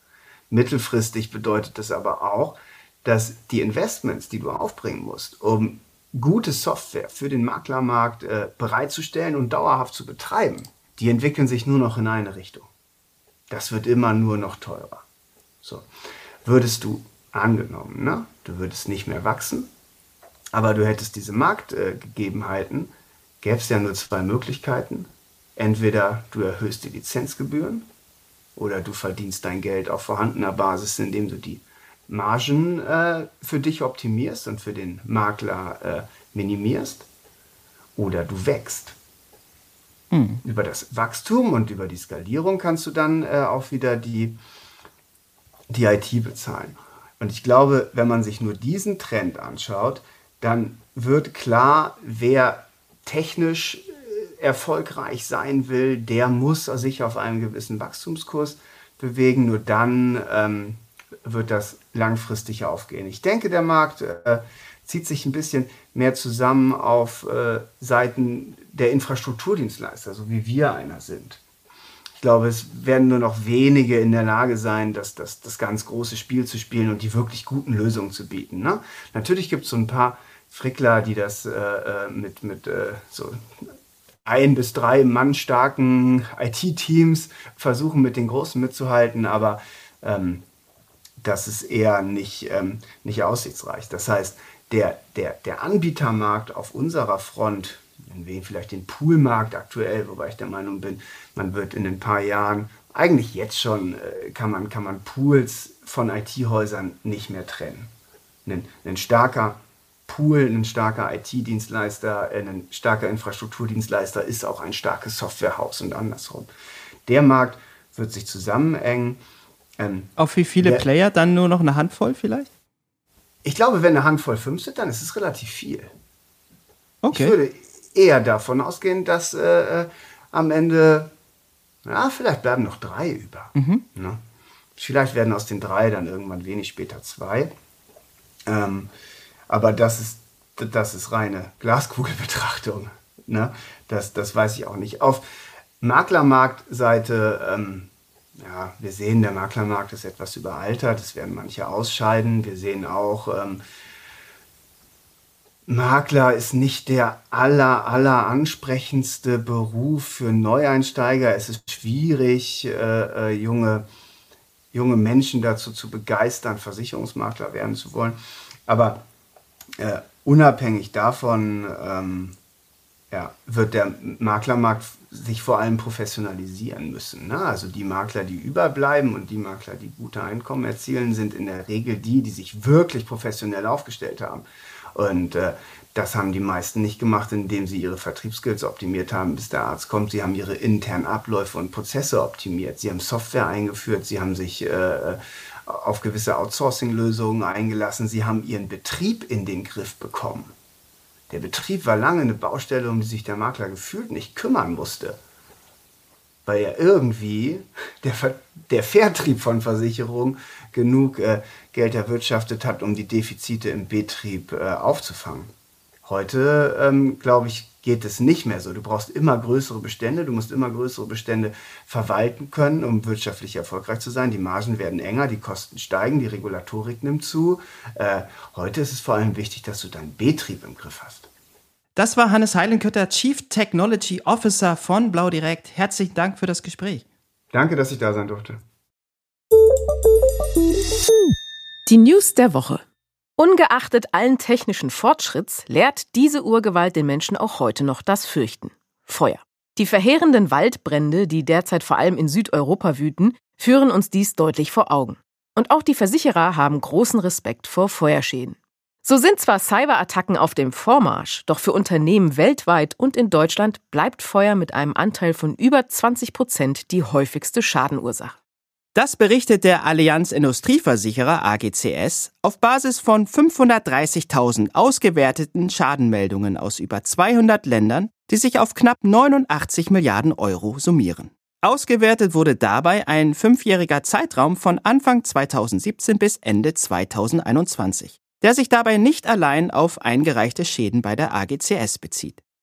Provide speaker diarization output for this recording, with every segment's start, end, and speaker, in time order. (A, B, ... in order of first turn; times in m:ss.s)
0:00.5-0:12.7 A
0:13.5-0:15.0 A
0:16.4-0:19.7 A
0:20.5-0:27.9 A
0:28.6-0:37.1 A
0:38.0-0:39.0 A
0:40.1-0:40.4 B
0:40.4-0:44.4 A
0:45.7-1:11.4 A
1:12.2-1:23.4 A
1:24.2-1:30.4 A
1:31.2-1:47.9 A
1:48.5-1:56.5 A
1:57.1-1:59.2 A
1:59.8-2:00.8 A
2:00.2-2:02.5 B
2:03.4-2:05.9 A
2:07.0-2:07.4 B
2:07.1-2:11.1 A
2:11.8-2:14.2 A
2:13.6-2:13.8 B
2:14.8-2:17.5 A
2:18.5-2:18.9 A
2:19.5-2:25.2 A
2:25.8-2:33.6 A
2:35.7-2:43.9 A
2:44.7-2:49.0 A
2:49.8-2:52.4 A
2:53.1-3:20.5 A
3:21.3-3:25.2 A
3:26.5-3:35.5 A
3:36.0-3:51.3 A
3:52.0-3:57.0 B
3:57.5-3:58.6 A
4:01.9-4:02.8 C
4:03.4-4:28.4 C
4:29.0-4:52.4 B